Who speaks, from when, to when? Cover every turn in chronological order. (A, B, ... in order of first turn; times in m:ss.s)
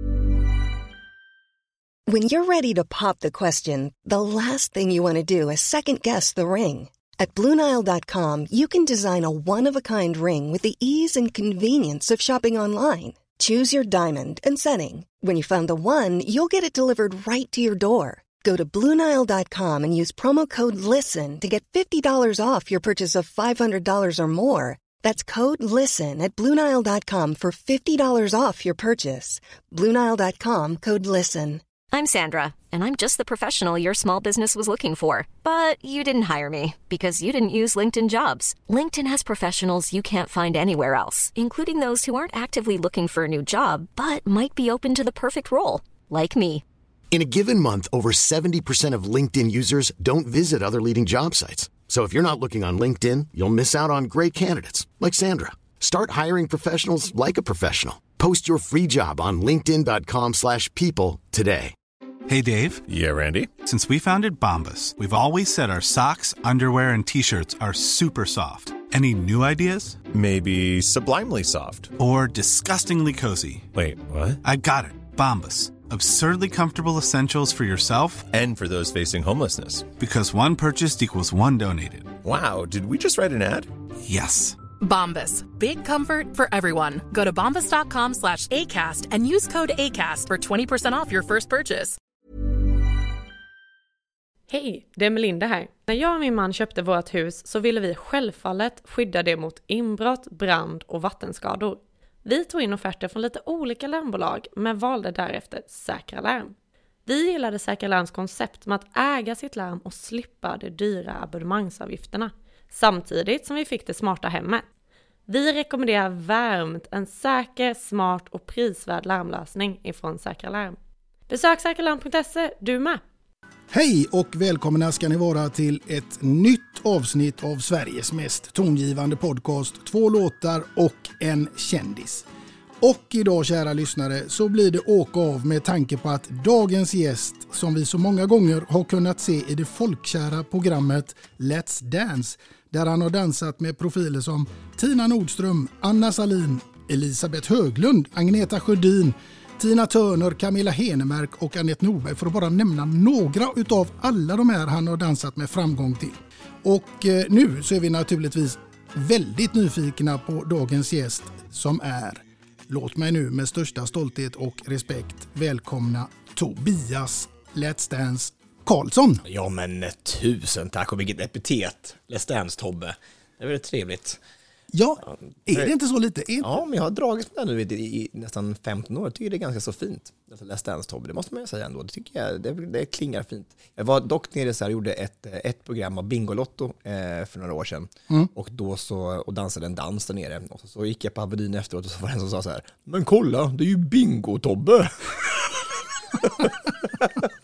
0:02.1-0:31.6 A
0:31.9-0:46.6 B
0:47.1-1:01.7 C
1:02.3-1:02.8 D
1:02.9-1:03.5 E
1:03.6-1:10.1 D
1:10.1-1:11.9 E
1:12.0-1:13.7 D
1:13.7-1:14.4 E
1:14.4-1:18.3 D
1:18.3-1:19.9 E
1:20.0-1:22.1 D
1:22.2-1:23.7 E
1:24.0-1:24.6 D
1:24.8-1:32.0 F
1:34.5-1:46.5 G
1:47.0-1:54.6 G
1:55.3-2:00.8 G
2:01.3-2:03.0 G
2:03.7-2:12.2 H
2:12.8-2:49.2 H
2:49.2-2:54.2 I
2:54.7-2:56.5 H
2:55.0-2:55.7 I
2:56.4-3:15.6 I
3:16.2-3:17.0 I